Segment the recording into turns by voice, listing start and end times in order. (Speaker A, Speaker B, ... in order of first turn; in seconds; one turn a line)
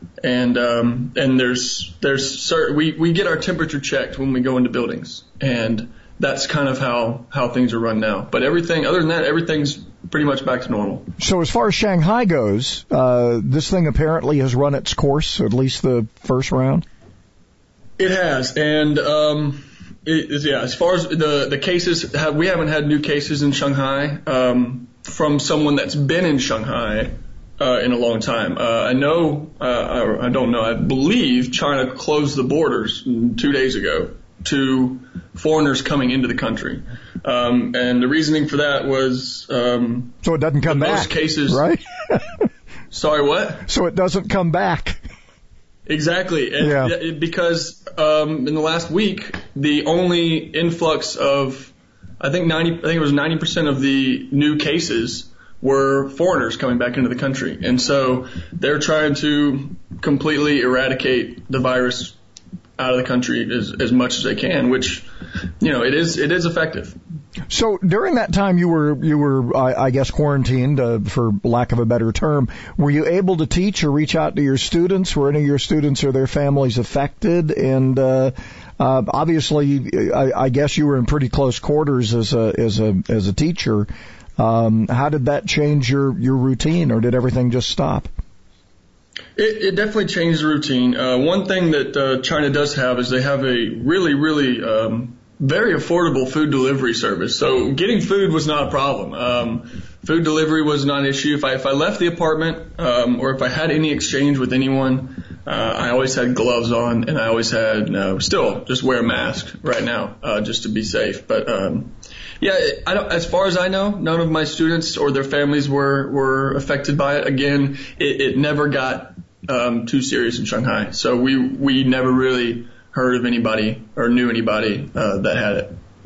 Speaker A: 0.2-11.1
Speaker B: 11.2-16.9
Speaker A: 18.0-40.1
Speaker B: 40.2-42.3
Speaker A: 40.7-41.6
Speaker A: 42.9-43.6
Speaker B: 43.7-45.0
Speaker A: 45.9-62.2
Speaker B: 46.6-47.0
Speaker A: 62.8-65.1
Speaker A: 65.6-67.0
Speaker B: 67.5-88.1
Speaker A: 89.4-125.8